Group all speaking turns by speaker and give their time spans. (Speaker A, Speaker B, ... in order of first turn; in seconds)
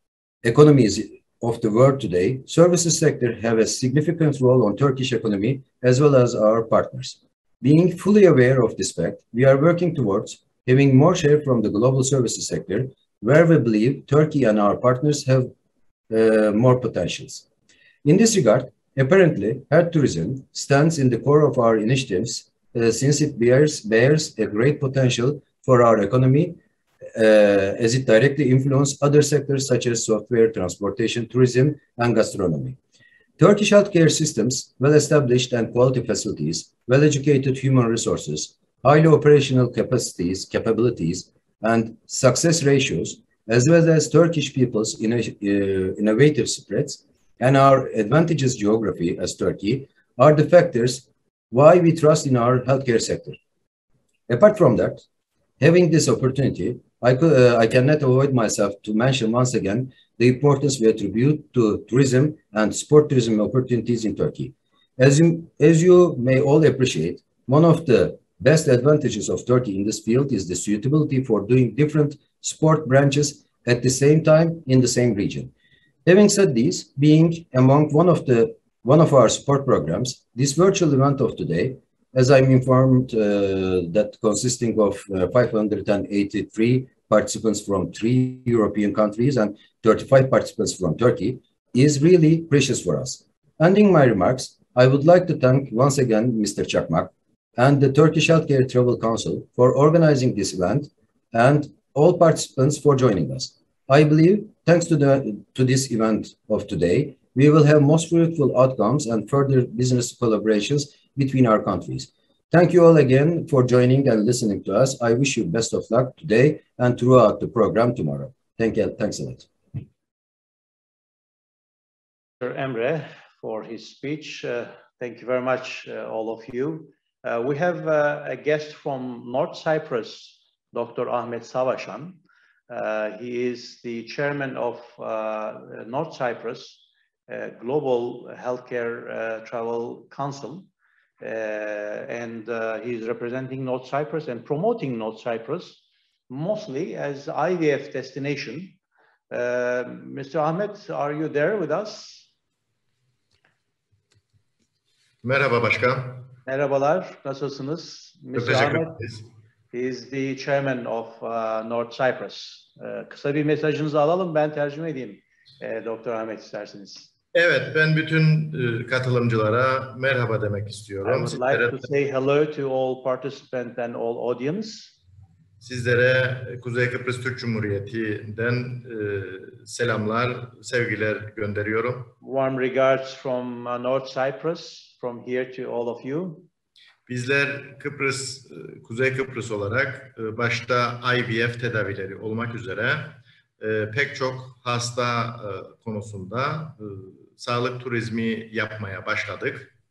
Speaker A: 0.4-15.5, 16.1-17.4, 18.0-26.6, 27.1-32.8, 33.4-53.4, 54.3-55.0, 55.6-75.5, 76.0-119.8
Speaker B: 122.4-140.7, 141.2-148.8, 149.3-152.3, 156.4-159.0, 159.7-167.1, 171.0-174.9, 182.2-186.5
Speaker C: 155.2-156.3, 158.3-159.2, 167.3-171.8, 175.6-182.1, 187.1-199.7